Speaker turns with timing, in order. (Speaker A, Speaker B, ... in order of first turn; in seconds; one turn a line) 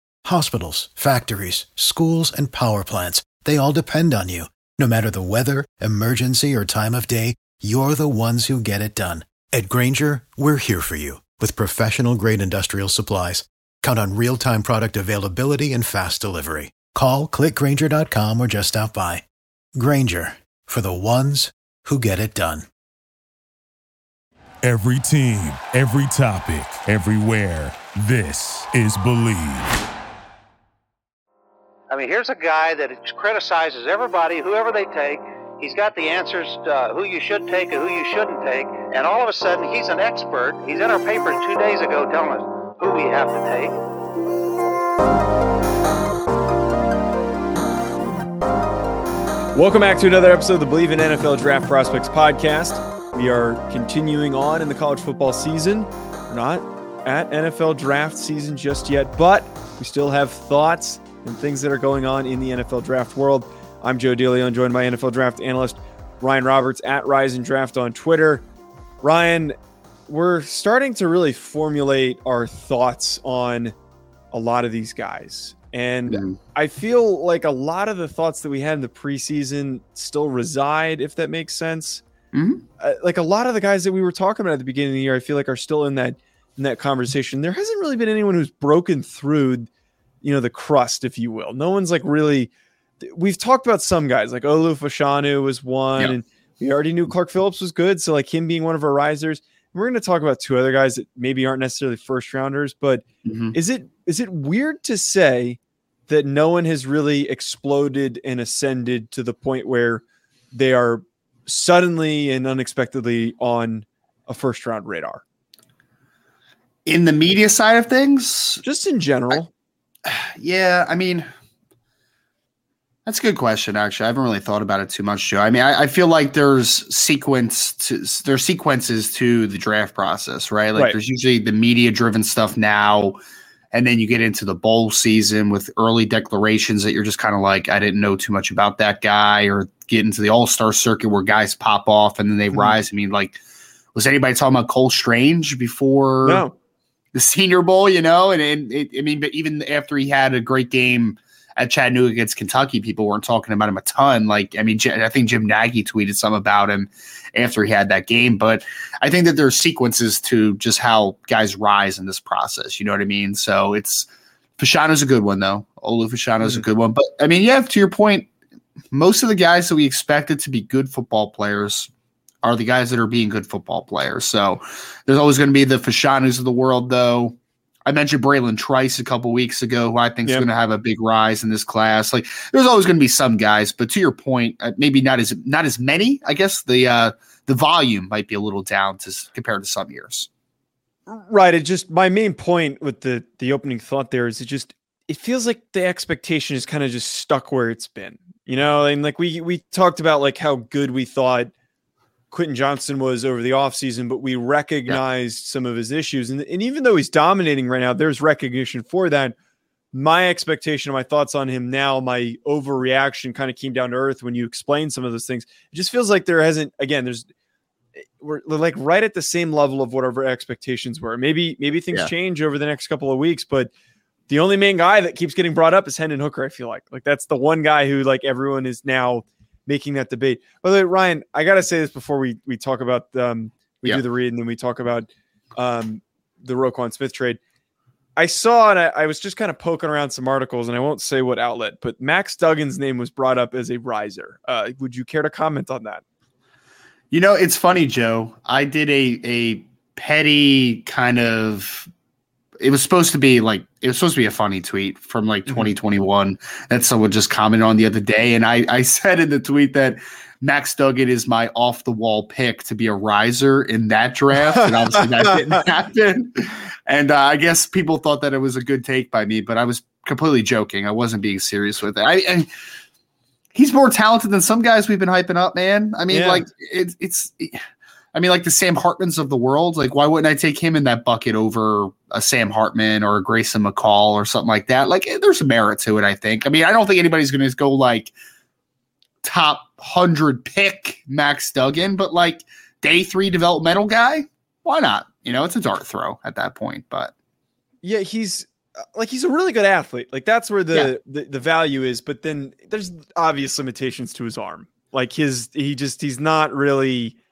Speaker A: 0.2-19.2
Speaker A: 19.8-22.7
Speaker B: 24.6-29.8
Speaker C: 31.9-43.8
Speaker D: 49.5-68.4
Speaker D: 69.0-69.5
Speaker D: 70.1-73.7
Speaker D: 74.3-82.0
Speaker E: 76.1-76.3
Speaker E: 82.3-82.6
Speaker D: 82.8-89.7
Speaker D: 90.2-92.5
Speaker D: 93.0-115.2
Speaker E: 103.2-103.5
Speaker E: 116.8-118.6
Speaker D: 118.6-119.5
Speaker E: 120.0-121.3
Speaker E: 123.0-133.2
Speaker E: 133.7-143.4
Speaker E: 143.9-146.4
Speaker D: 146.2-146.5
Speaker E: 147.1-164.1
Speaker E: 164.6-168.3
Speaker E: 168.9-171.9
Speaker E: 172.4-190.3
Speaker D: 191.1-201.5
Speaker D: 202.3-209.3
Speaker D: 209.9-217.3
Speaker D: 218.2-223.7
Speaker D: 224.3-237.4
Speaker D: 238.2-246.0
Speaker E: 247.1-251.9
Speaker E: 252.6-272.5
Speaker D: 264.6-265.6
Speaker E: 273.5-277.6
Speaker D: 276.1-276.5
Speaker E: 278.1-288.1
Speaker E: 289.2-297.1
Speaker D: 297.8-307.1